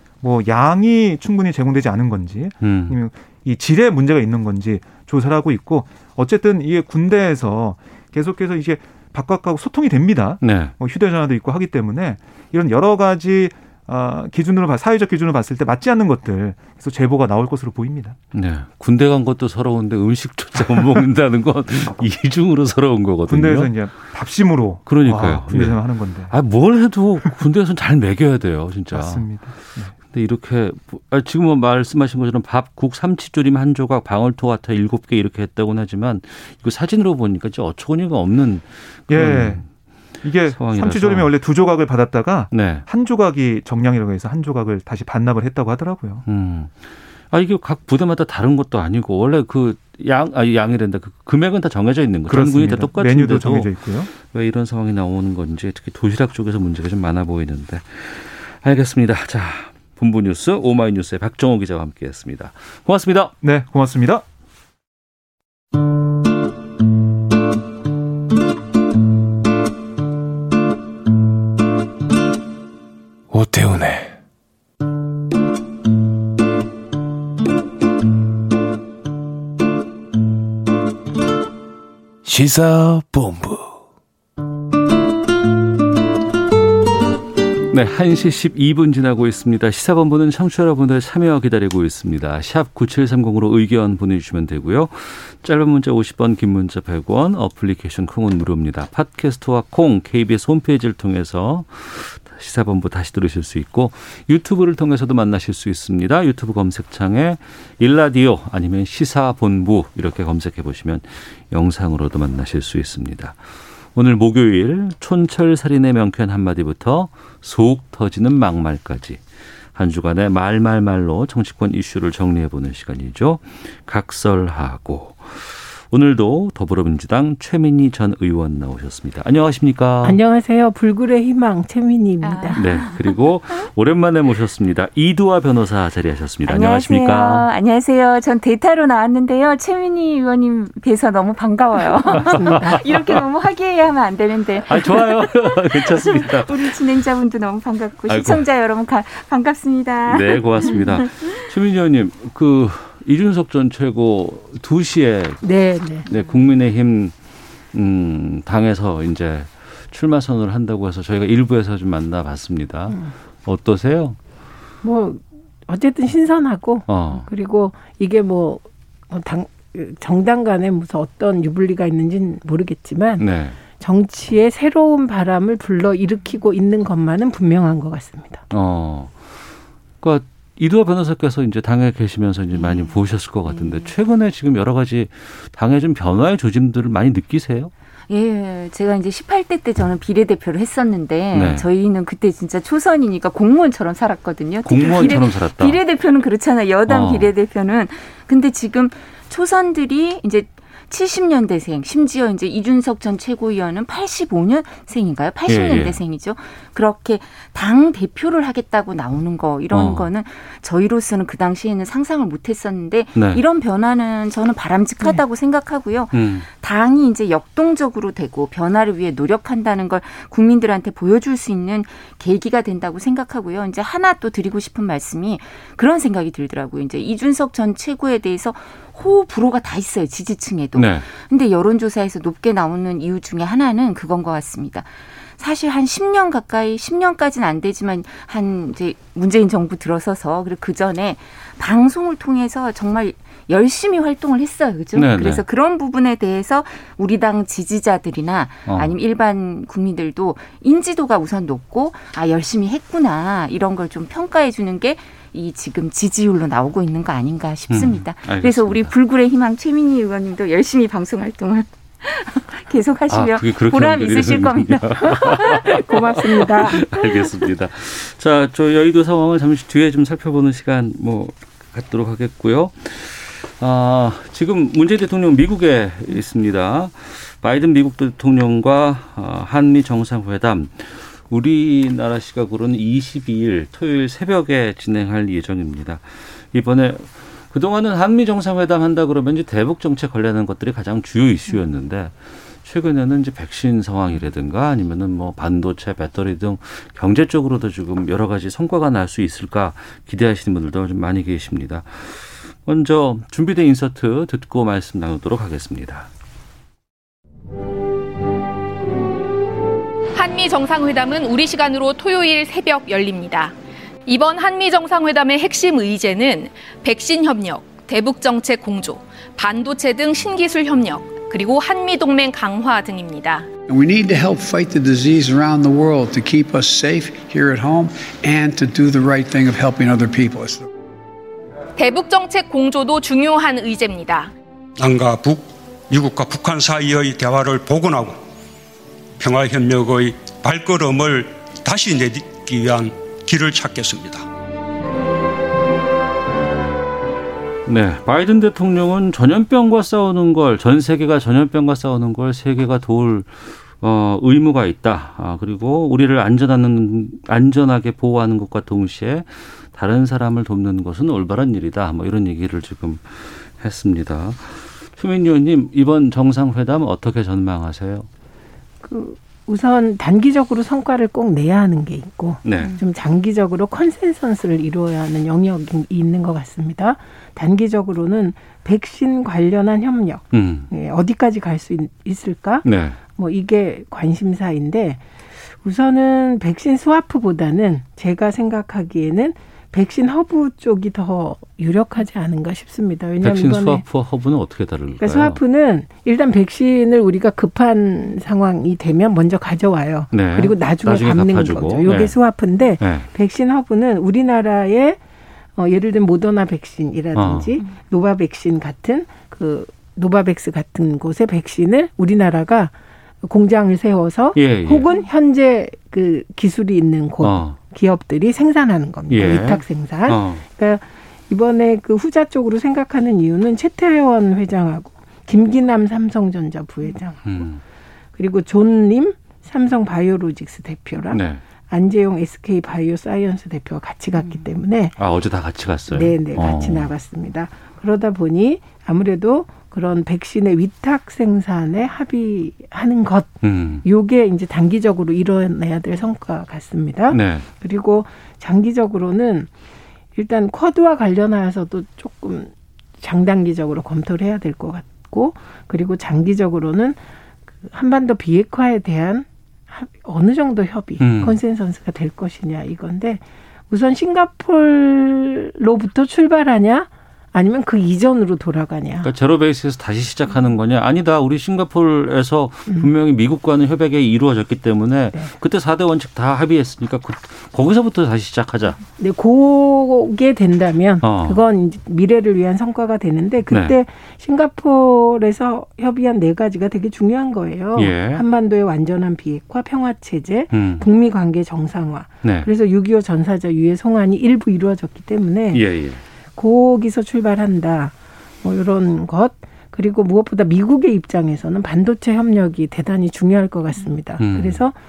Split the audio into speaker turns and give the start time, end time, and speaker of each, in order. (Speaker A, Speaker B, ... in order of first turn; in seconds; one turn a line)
Speaker A: 0.2-18.2
Speaker B: 2.6-3.0
Speaker B: 10.4-10.7
Speaker B: 18.3-23.7
Speaker A: 23.3-26.3
Speaker B: 24.9-25.8
Speaker B: 26.3-29.3
Speaker A: 28.9-29.9
Speaker B: 30.1-39.6
Speaker A: 39.1-39.6
Speaker A: 40.2-46.2
Speaker B: 40.5-41.3
Speaker B: 42.5-42.9
Speaker B: 46.3-63.3
Speaker A: 52.3-54.1
Speaker A: 63.4-64.2
Speaker C: 73.3-74.2
Speaker C: 82.2-83.7
Speaker B: 87.7-113.4
Speaker B: 114.0-119.2
Speaker B: 119.8-130.2
Speaker D: 130.0-132.6
Speaker E: 132.2-133.2
Speaker B: 132.6-137.5
Speaker E: 136.5-151.3
Speaker B: 142.1-143.2
Speaker D: 142.3-142.7
Speaker B: 144.7-146.8
Speaker B: 148.1-148.5
Speaker B: 150.1-155.4
Speaker D: 155.4-156.1
Speaker B: 156.1-157.1
Speaker E: 156.1-156.4
Speaker B: 157.7-164.2
Speaker D: 164.8-173.2
Speaker B: 166.9-167.3
Speaker B: 173.2-173.6
Speaker D: 173.8-178.4
Speaker B: 178.5-179.2
Speaker B: 180.0-187.7
Speaker E: 182.5-183.9
Speaker E: 188.1-265.8
Speaker B: 191.3-191.7
Speaker B: 194.7-195.8
Speaker B: 196.9-197.3
Speaker B: 205.5-206.0
Speaker B: 209.7-210.1
Speaker B: 213.2-213.4
Speaker B: 216.1-216.5
Speaker B: 230.8-231.1
Speaker B: 244.9-245.4
Speaker B: 248.7-248.9
Speaker B: 257.7-258.9
Speaker B: 263.1-306.1
Speaker D: 265.1-266.9
Speaker F: 310.1-313.5
Speaker F: 314.1-323.5
Speaker G: 323.7-330.7
Speaker F: 331.8-334.3
Speaker H: 334.8-338.2
Speaker H: 339.2-344.3
Speaker B: 347.7-368.1
Speaker D: 368.8-385.0
Speaker B: 372.4-372.8
Speaker B: 380.3-380.7
Speaker B: 382.6-383.0
Speaker D: 385.6-393.8
Speaker B: 393.2-395.4
Speaker D: 395.0-405.0
Speaker B: 400.1-402.1
Speaker B: 402.8-403.1
Speaker D: 405.6-427.4
Speaker B: 407.1-407.6
Speaker B: 414.4-414.9
Speaker B: 417.2-417.6
Speaker B: 419.1-420.4
Speaker B: 427.2-427.6
Speaker D: 428.2-434.9
Speaker B: 431.1-431.4
Speaker B: 435.0-436.9
Speaker D: 435.9-443.3
Speaker B: 443.4-443.8
Speaker D: 443.8-449.5
Speaker B: 447.1-447.5
Speaker D: 450.2-457.0
Speaker D: 457.6-469.1
Speaker B: 461.0-461.4
Speaker B: 469.0-478.8
Speaker D: 479.0-495.6
Speaker B: 481.0-481.4
Speaker B: 483.5-483.8
Speaker B: 487.8-488.2
Speaker B: 490.5-490.9
Speaker B: 492.2-492.5
Speaker B: 495.5-496.0
Speaker D: 496.4-504.8
Speaker B: 504.2-504.6